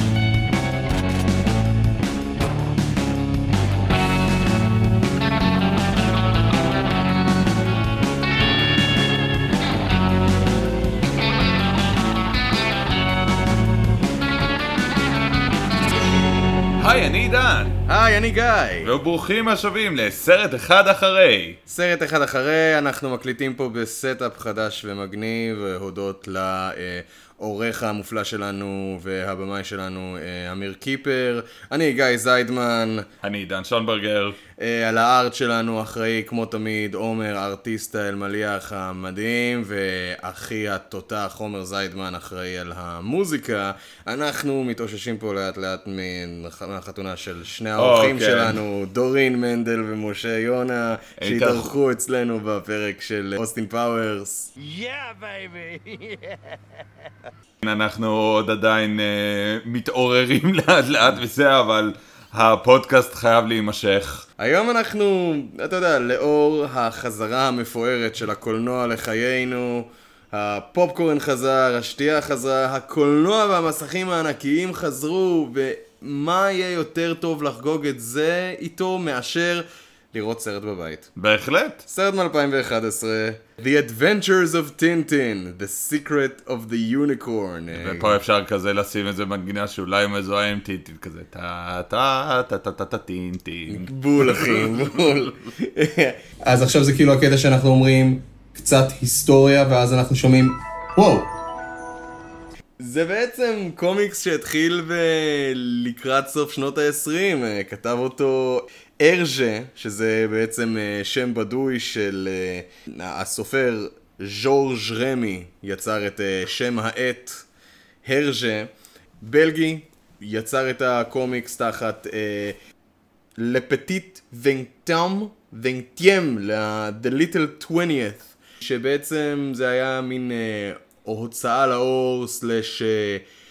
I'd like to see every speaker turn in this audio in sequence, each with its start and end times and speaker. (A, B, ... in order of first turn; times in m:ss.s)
0:16.8-0:17.8 A
0:17.9-0:18.9 B
0:18.8-0:21.6 A
0:21.7-0:33.1 B
0:33.2-0:34.4 A
0:34.6-0:54.5 B
0:47.8-0:48.6 A
0:51.2-0:51.7 A
0:54.6-0:56.6 C
0:57.6-1:04.3 A
1:04.4-1:21.1 B
1:21.2-1:21.8 A
1:21.9-1:28.2 B
1:27.7-1:35.3 A
1:33.7-1:41.3 B
1:42.8-1:57.5 B
1:58.0-1:58.7 B
1:59.2-2:02.6 B
2:03.4-2:13.2 B